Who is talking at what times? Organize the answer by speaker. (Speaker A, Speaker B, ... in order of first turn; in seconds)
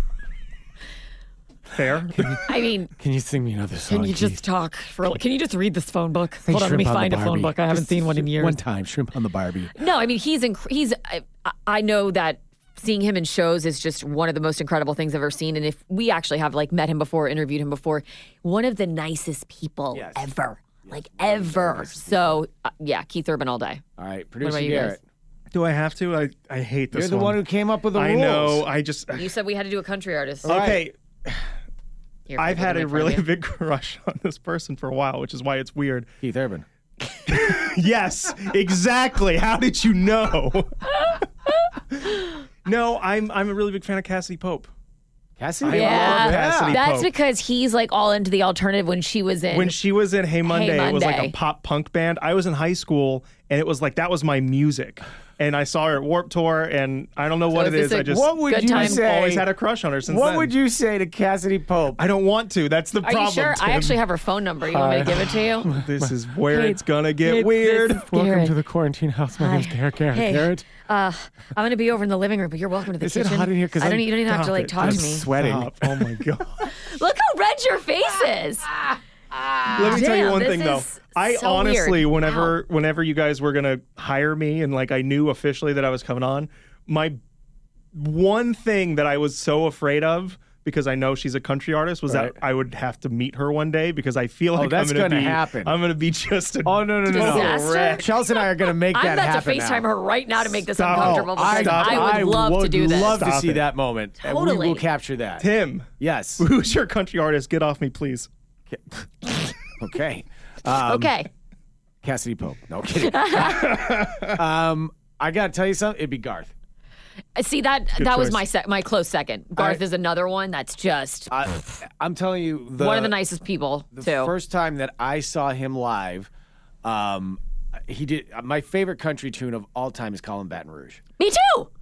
Speaker A: 1.7-2.4, 25.5-29.3, 30.4-31.5, 32.4-36.1, 37.3-41.1, 42.6-44.7, 45.6-47.1, 49.5-60.5, 62.0-64.0, 65.7-68.1, 74.2-76.7, 79.7-87.2, 87.9-98.1, 100.7-102.3, 103.0-103.6, 105.4-108.3, 113.5-114.2, 118.0-118.4
Speaker B: 2.1-4.4, 6.4-9.7, 19.9-20.3, 20.9-22.4, 24.0-25.0, 26.9-28.7, 30.4-30.8, 36.2-36.6, 45.4-46.8, 57.7-59.5, 60.1-62.0, 64.7-66.1, 68.0-70.7, 73.0-76.2, 92.1-92.4, 94.5-95.7, 96.6-99.8, 100.9-105.5, 106.0-106.5, 108.7-111.1, 112.0-116.5, 119.6-119.8, 121.3-123.2, 123.9-126.3, 126.8-131.0
Speaker C: 2.4-2.9, 3.9-8.6, 9.7-23.8, 24.4-25.0, 29.1-30.6, 32.2-33.3, 45.7-49.7, 50.4-51.3, 57.5-59.0, 63.0-65.7, 66.5-68.5, 69.3-75.3, 76.7-78.7, 79.7-82.5, 97.1-98.1, 98.7-103.2, 104.2-104.8, 110.8-111.3, 113.0-113.8, 117.3-121.3, 122.8-124.3, 131.2-131.7